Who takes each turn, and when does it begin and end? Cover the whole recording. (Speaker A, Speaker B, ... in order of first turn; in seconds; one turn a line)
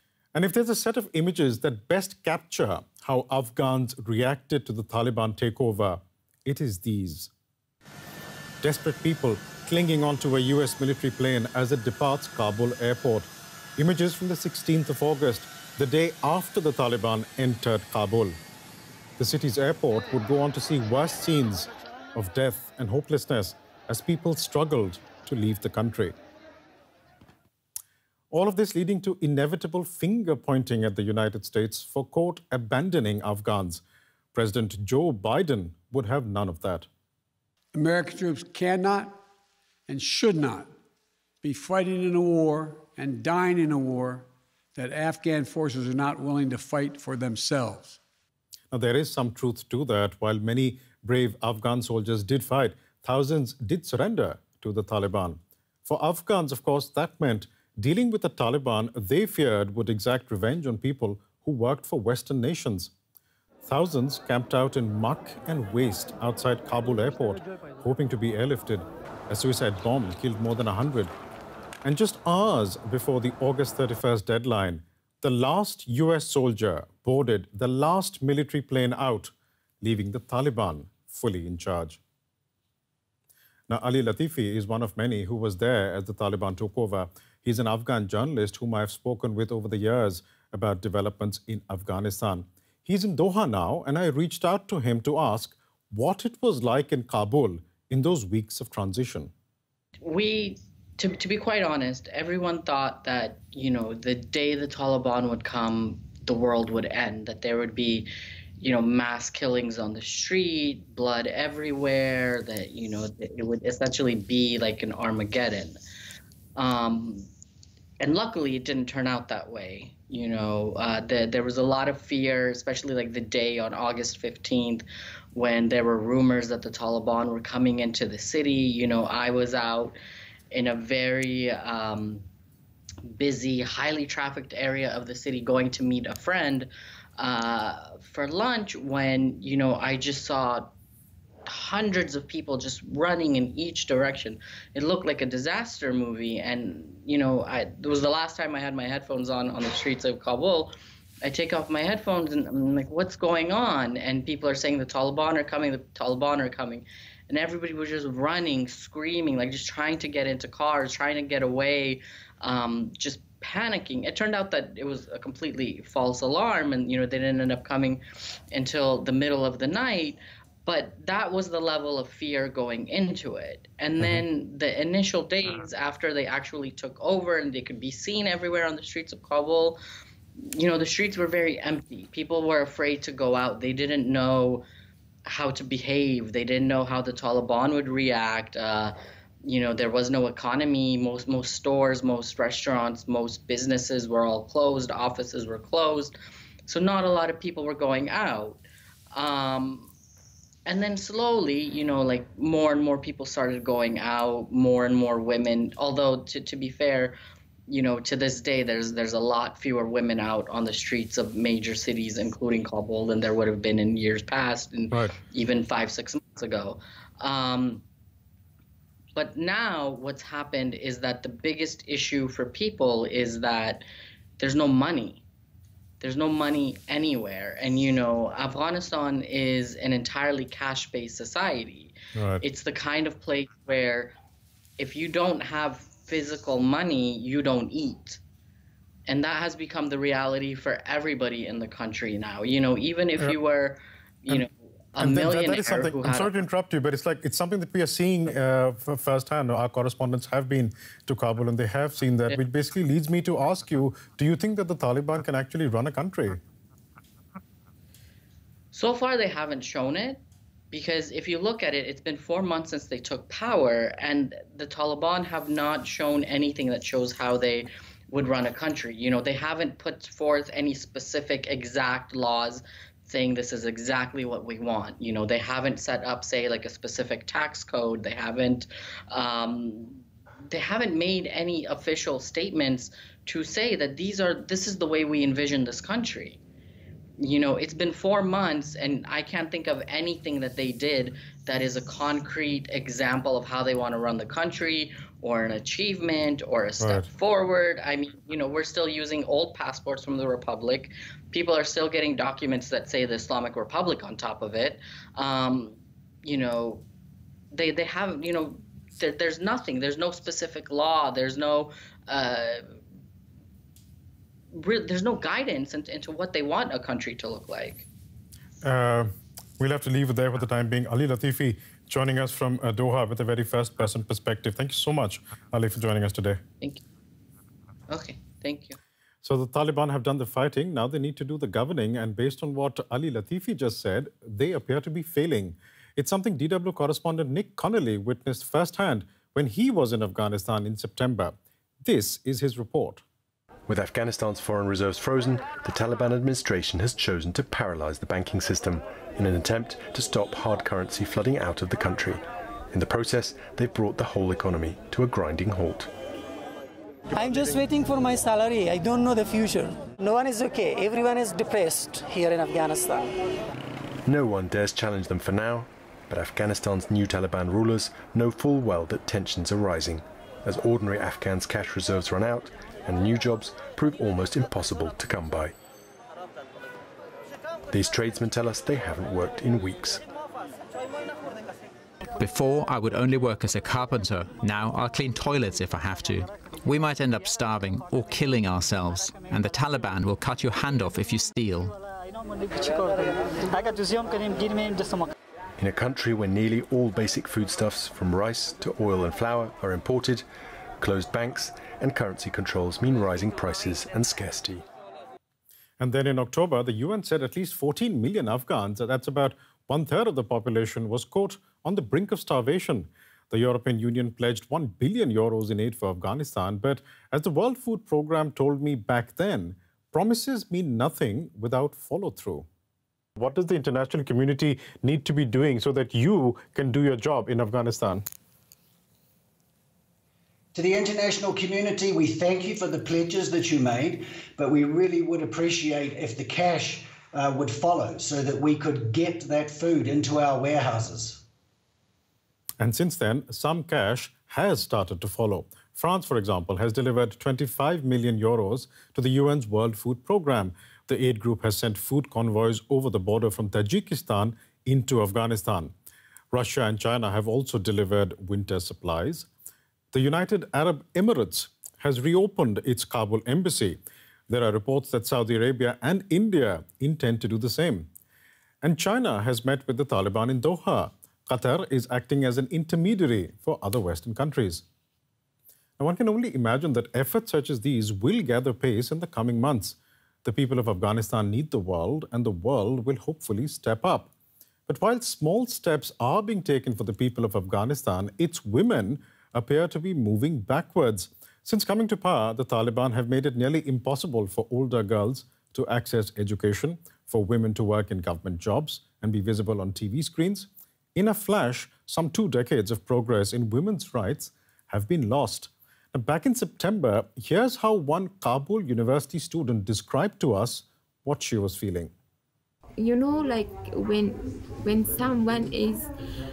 Speaker A: 0.3-7.3
Speaker A: 8.6-18.4
Speaker A: 19.2-26.1
Speaker A: 28.3-33.8
Speaker A: 34.3-36.9
Speaker B: 37.7-39.2
Speaker B: 39.9-40.7
Speaker B: 41.4-48.0
Speaker A: 48.7-62.9
Speaker A: 63.6-71.1
Speaker A: 71.8-82.0
Speaker A: 83.7-99.3
Speaker C: 100.0-108.1
Speaker C: 108.6-115.8
Speaker C: 116.6-117.3
Speaker C: 118.0-129.9
Speaker C: 130.5-132.2
Speaker C: 133.1-140.7
Speaker C: 141.4-150.7
Speaker C: 151.2-168.0
Speaker C: 168.5-179.8
Speaker C: 180.4-184.7
Speaker C: 185.2-188.9
Speaker C: 189.4-196.1
Speaker C: 196.7-199.9
Speaker C: 200.7-207.2
Speaker C: 207.7-217.8
Speaker C: 219.2-223.8
Speaker C: 224.4-225.2
Speaker C: 226.0-234.1
Speaker A: 232.1-232.4
Speaker C: 234.8-238.2
Speaker C: 239.1-246.3
Speaker A: 245.0-256.4
Speaker C: 258.7-260.2
Speaker C: 260.7-286.4
Speaker C: 287.2-306.8
Speaker A: 296.8-297.1
Speaker C: 307.5-312.6
Speaker C: 314.5-317.9
Speaker A: 318.6-326.4
Speaker C: 327.9-328.8
Speaker A: 329.2-343.0
Speaker D: 343.7-355.9
Speaker E: 357.1-363.1
Speaker D: 364.1-375.5
Speaker D: 377.7-380.0
Speaker F: 382.2-391.7
Speaker E: 392.4-395.1
Speaker D: 395.6-400.2
Speaker D: 400.8-404.6
Speaker A: 405.8-422.4
Speaker A: 423.2-428.0
Speaker G: 430.5-441.2
Speaker A: 442.6-455.7
Speaker A: 456.3-459.3
Speaker A: 459.9-467.9
Speaker A: 468.6-474.6
Speaker A: 475.8-484.1
Speaker A: 484.7-511.9
Speaker H: 512.8-515.9